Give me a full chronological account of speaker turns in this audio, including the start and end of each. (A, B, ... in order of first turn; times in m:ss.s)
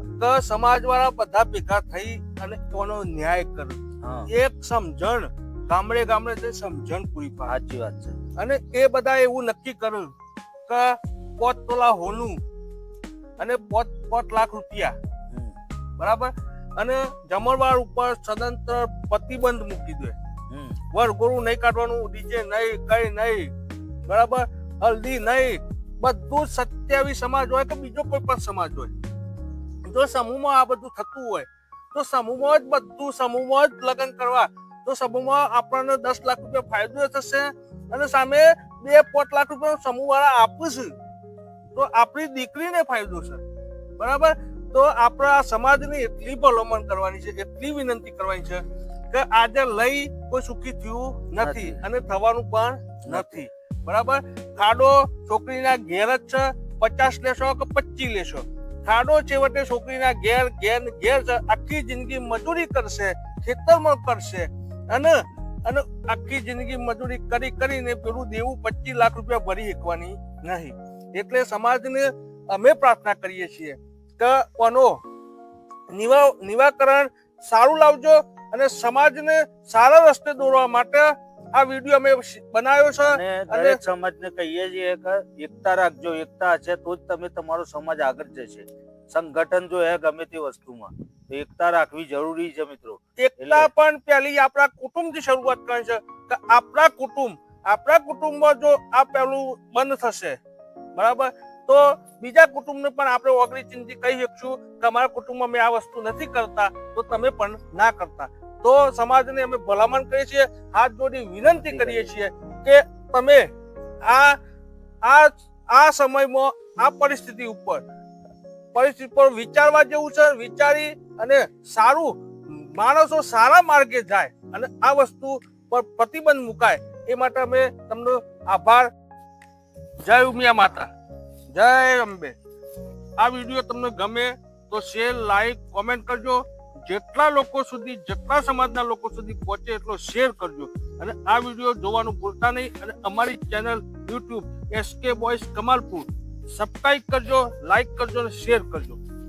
0:00.2-0:03.8 A
0:04.0-0:04.3 B
0:04.3-0:07.5 A
0:07.5-0:08.2 B
0:08.4-0:10.1 A
0:10.7-0:12.4 A
0:13.4-0:14.9 A
0:16.0-0:20.1 A
0:20.5-0:20.8 B
0:20.9-0:23.5 A
0:24.1-0:28.9 A
0:29.8-0:40.9 A
0:41.7-0:43.4 A
0:44.0-1:15.0 A
0:51.4-0:51.8 B
0:53.1-0:53.4 B
1:15.9-1:23.8 A
1:23.0-1:33.7 B
1:33.2-1:40.4 A
1:41.0-1:53.5 A
1:51.4-1:52.1 B
1:54.0-1:54.4 A
1:55.0-1:57.8 A
1:58.7-2:08.9 A
2:10.0-2:10.9 A
2:11.5-2:12.3 A
2:13.2-2:29.0 A